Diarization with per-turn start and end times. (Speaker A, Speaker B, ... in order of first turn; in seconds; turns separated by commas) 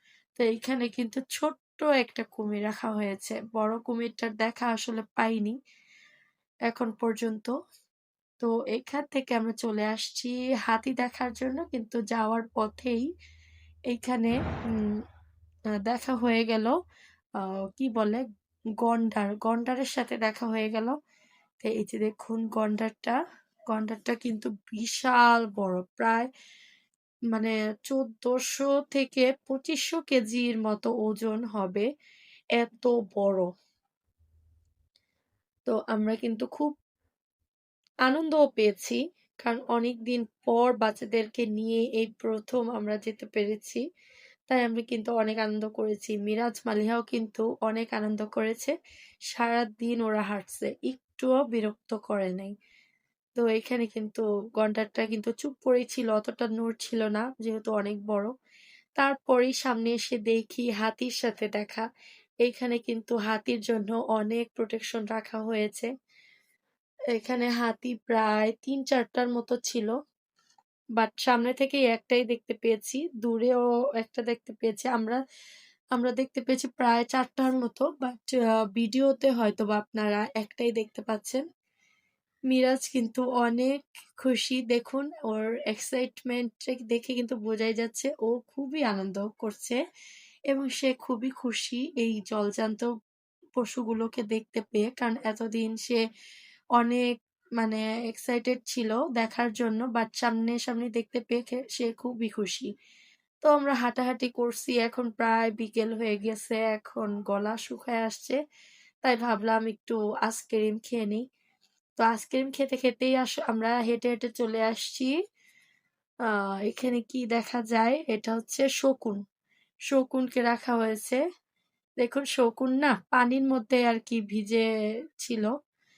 Speaker A: 0.4-5.6, Speaker A: 6.7-7.5, Speaker A: 8.4-13.1, Speaker A: 13.9-15.0, Speaker A: 15.8-16.7, Speaker A: 17.4-18.2, Speaker A: 18.8-21.0, Speaker A: 21.6-26.3, Speaker A: 27.3-31.9, Speaker A: 32.6-33.5, Speaker A: 35.7-36.7, Speaker A: 38.0-43.8, Speaker A: 44.5-48.7, Speaker A: 49.3-52.5, Speaker A: 53.4-58.3, Speaker A: 59.0-61.8, Speaker A: 62.4-65.9, Speaker A: 67.1-69.9, Speaker A: 71.0-75.2, Speaker A: 75.9-81.4, Speaker A: 82.5-89.8, Speaker A: 90.5-92.9, Speaker A: 93.6-96.0, Speaker A: 96.8-102.7, Speaker A: 103.4-108.4, Speaker A: 109.0-111.2, Speaker A: 112.0-115.2, Speaker A: 116.2-119.2, Speaker A: 119.9-121.2, Speaker A: 122.0-124.6, Speaker A: 125.2-125.5